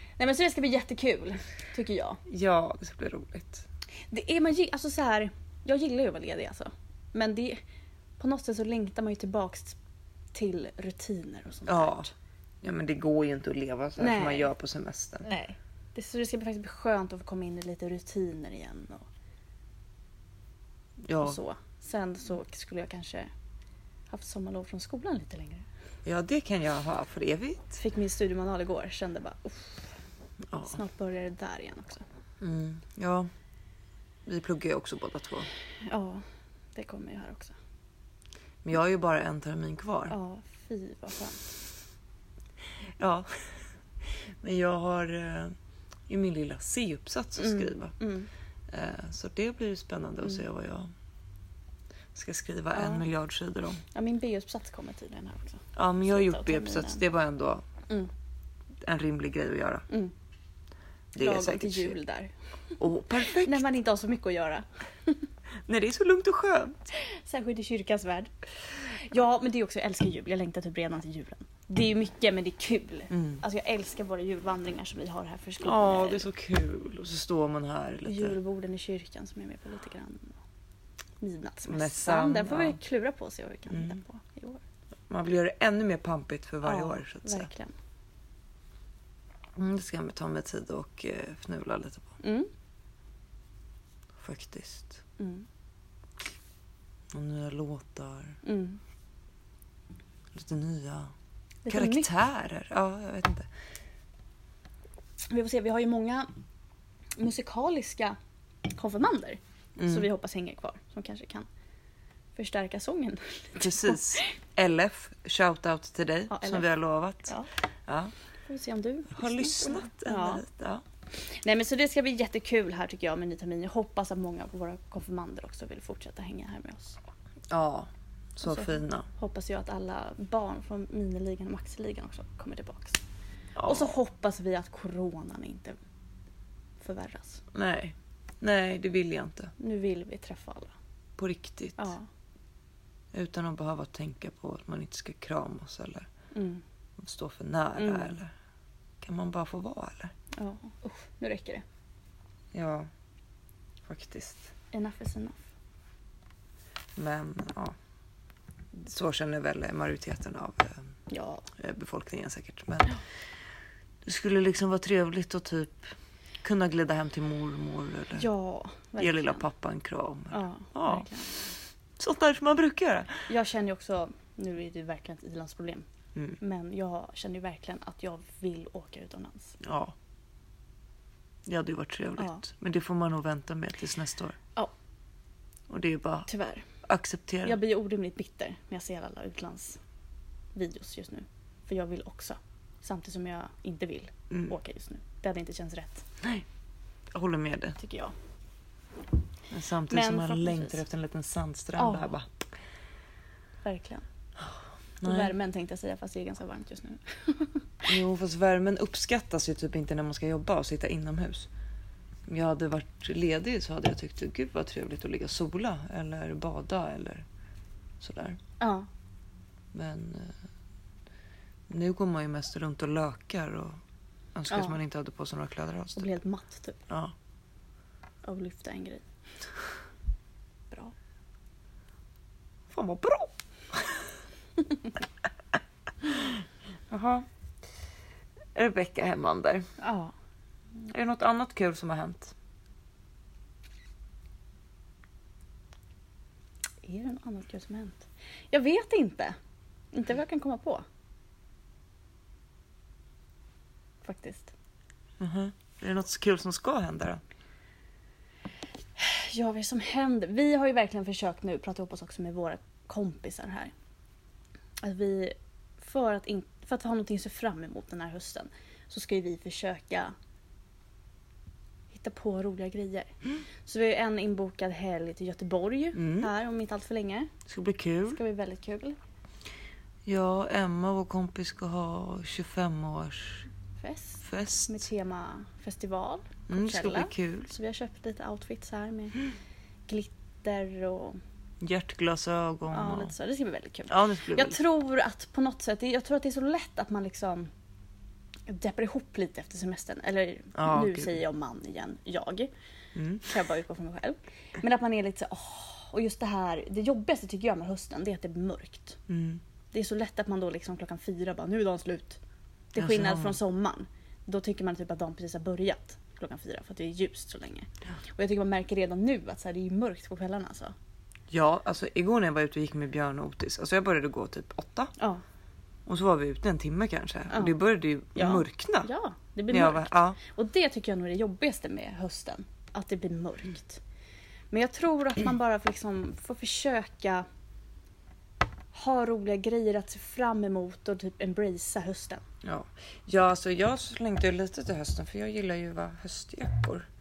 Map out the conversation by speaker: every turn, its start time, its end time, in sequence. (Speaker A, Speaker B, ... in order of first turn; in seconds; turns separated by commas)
Speaker A: 0.2-2.2, Speaker B: 2.3-3.6, Speaker A: 4.1-7.6, Speaker A: 8.2-9.8, Speaker A: 10.3-12.1, Speaker B: 11.7-12.1, Speaker B: 12.6-15.3, Speaker A: 14.0-14.5, Speaker A: 15.2-19.1, Speaker B: 21.0-21.4, Speaker A: 21.2-23.3, Speaker A: 24.1-25.7, Speaker B: 26.0-27.8, Speaker A: 27.8-29.9, Speaker B: 30.5-30.7, Speaker A: 30.6-32.0, Speaker B: 32.4-33.3, Speaker B: 34.2-35.5, Speaker A: 35.8-37.5, Speaker B: 38.6-40.1, Speaker A: 40.1-41.5, Speaker B: 43.0-45.5, Speaker B: 46.1-47.9, Speaker A: 47.4-48.3, Speaker B: 48.7-50.9, Speaker B: 52.1-53.8, Speaker A: 52.7-53.0, Speaker A: 53.9-57.0, Speaker B: 55.8-57.6, Speaker B: 58.8-59.9, Speaker B: 61.1-61.9, Speaker A: 61.2-62.3, Speaker B: 62.8-63.6, Speaker A: 63.2-65.2, Speaker B: 65.7-66.8, Speaker A: 67.0-76.3, Speaker B: 73.1-73.4, Speaker B: 75.6-78.4, Speaker A: 78.0-80.4, Speaker A: 81.2-84.6, Speaker B: 81.6-82.8, Speaker B: 83.7-84.0, Speaker B: 85.1-87.5, Speaker A: 86.6-87.7, Speaker B: 89.5-92.2, Speaker A: 92.2-92.5, Speaker B: 94.1-95.0, Speaker A: 95.2-95.5, Speaker B: 97.1-98.4, Speaker A: 98.4-98.8, Speaker B: 100.3-101.1, Speaker A: 101.6-102.1, Speaker B: 101.7-103.5, Speaker A: 105.3-106.3, Speaker A: 107.2-111.5, Speaker B: 109.8-110.1, Speaker A: 112.3-114.3, Speaker B: 113.6-117.3, Speaker A: 116.3-116.7, Speaker B: 117.9-118.1, Speaker A: 118.5-120.4, Speaker B: 119.1-120.8, Speaker A: 121.4-127.0, Speaker B: 127.5-129.1, Speaker A: 128.4-133.0, Speaker B: 133.6-133.9, Speaker A: 133.6-135.8, Speaker A: 136.8-137.4, Speaker B: 137.5-139.5, Speaker A: 139.6-140.7, Speaker B: 141.2-141.9, Speaker A: 141.8-142.1, Speaker B: 143.1-146.1, Speaker A: 146.3-146.6, Speaker B: 147.0-148.3, Speaker A: 147.8-148.1, Speaker B: 149.0-150.1, Speaker A: 150.3-151.6, Speaker B: 152.5-152.9, Speaker B: 153.8-154.5, Speaker A: 154.7-155.5, Speaker B: 156.9-157.7, Speaker B: 158.7-160.9, Speaker A: 161.1-161.5, Speaker B: 161.5-163.0, Speaker B: 164.0-168.3, Speaker A: 168.2-169.4, Speaker B: 169.0-171.1, Speaker A: 170.3-171.3, Speaker B: 172.0-173.2, Speaker A: 173.3-175.8, Speaker A: 176.4-179.6, Speaker B: 179.6-179.9, Speaker B: 181.4-184.4, Speaker A: 182.2-182.4, Speaker B: 185.7-186.3, Speaker A: 186.3-186.7, Speaker B: 186.8-187.6, Speaker A: 187.4-189.8, Speaker A: 190.5-196.0, Speaker B: 197.1-197.8, Speaker A: 197.8-198.1, Speaker B: 199.5-202.2, Speaker A: 199.9-200.8, Speaker A: 201.8-202.1, Speaker A: 203.6-204.0, Speaker B: 204.4-205.3, Speaker A: 205.0-207.8, Speaker B: 207.9-211.5, Speaker B: 212.3-217.2, Speaker B: 218.0-218.4, Speaker A: 218.6-218.9, Speaker B: 219.7-220.4, Speaker B: 221.7-223.8, Speaker B: 224.3-226.1, Speaker A: 224.5-224.8, Speaker A: 225.9-226.8, Speaker B: 226.9-227.1, Speaker A: 228.2-229.0, Speaker B: 232.7-234.1, Speaker B: 236.1-237.3, Speaker B: 238.5-239.7, Speaker A: 239.8-240.1, Speaker B: 240.8-242.3, Speaker A: 246.8-249.3, Speaker A: 249.9-250.8, Speaker A: 254.0-254.5, Speaker B: 255.2-257.2, Speaker A: 259.0-263.7, Speaker A: 264.8-270.1, Speaker A: 271.9-277.3, Speaker B: 275.9-276.3, Speaker B: 277.5-278.2, Speaker A: 278.1-279.0, Speaker B: 280.0-283.5, Speaker A: 283.8-289.2, Speaker B: 284.2-284.8, Speaker B: 286.5-287.5, Speaker A: 289.9-291.2, Speaker B: 291.6-293.1, Speaker A: 292.7-297.5, Speaker B: 293.9-294.6, Speaker A: 298.5-302.5, Speaker B: 300.5-301.1, Speaker B: 302.9-303.3, Speaker A: 303.2-309.0, Speaker B: 309.1-309.4, Speaker A: 309.7-312.2, Speaker A: 312.7-320.7, Speaker B: 312.8-313.4, Speaker B: 321.3-324.9, Speaker A: 325.0-325.2, Speaker B: 325.9-328.9, Speaker A: 327.3-327.6, Speaker A: 328.1-333.8, Speaker B: 329.5-330.2, Speaker A: 334.5-337.2, Speaker A: 338.7-342.2, Speaker B: 342.4-346.9